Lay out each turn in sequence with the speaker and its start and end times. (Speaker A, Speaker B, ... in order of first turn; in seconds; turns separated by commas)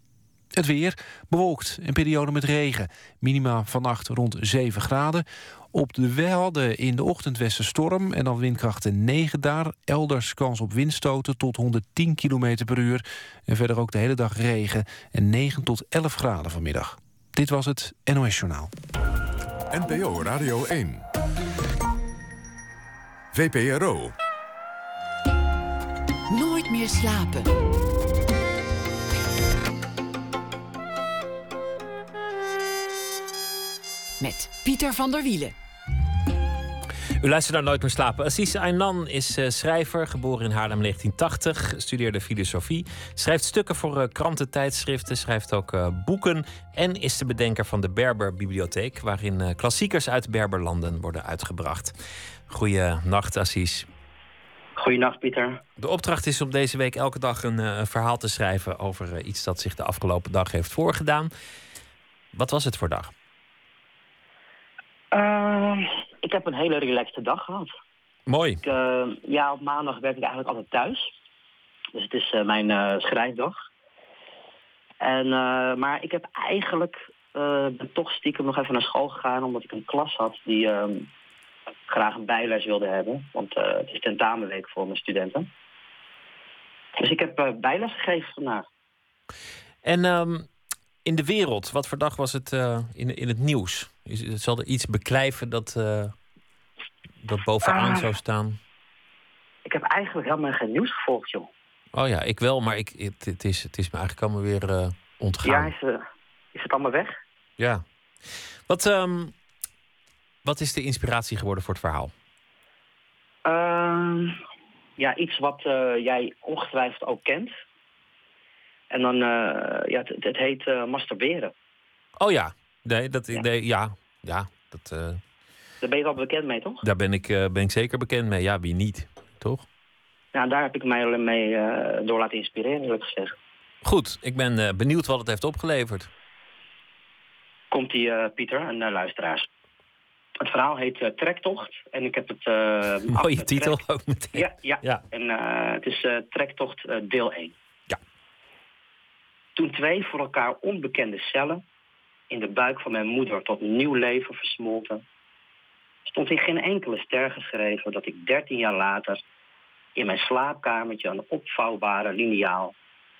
Speaker A: 0.5-18.7, Speaker B: 19.7-21.0, Speaker B: 23.3-24.1, Speaker C: 26.3-27.4, Speaker C: 34.2-35.5, Speaker D: 37.2-51.9, Speaker D: 52.5-53.9, Speaker E: 54.8-55.6, Speaker D: 55.8-61.3, Speaker D: 62.3-63.1, Speaker E: 65.1-67.7, Speaker D: 68.3-68.6, Speaker E: 68.6-71.0, Speaker E: 72.0-73.6, Speaker E: 75.0-81.1, Speaker E: 81.9-85.5, Speaker E: 87.0-88.7, Speaker D: 89.8-90.5, Speaker D: 91.0-96.1, Speaker D: 97.2-98.6, Speaker E: 97.6-98.1, Speaker E: 99.7-101.5, Speaker D: 101.9-105.7, Speaker E: 105.4-106.0, Speaker E: 106.5-107.2, Speaker D: 107.6-107.8, Speaker D: 108.7-109.3, Speaker D: 110.4-112.1, Speaker E: 113.5-114.4, Speaker E: 115.0-117.5, Speaker E: 118.9-121.5, Speaker D: 122.2-125.2, Speaker E: 125.8-126.8, Speaker D: 126.8-129.7, Speaker E: 130.3-133.3, Speaker D: 133.8-136.1, Speaker E: 137.7-139.5, Speaker E: 140.4-143.8, Speaker D: 143.1-145.0, Speaker E: 144.4-147.5, Speaker E: 149.6-151.6, Speaker E: 152.3-155.0, Speaker E: 156.1-159.2, Speaker E: 160.0-162.7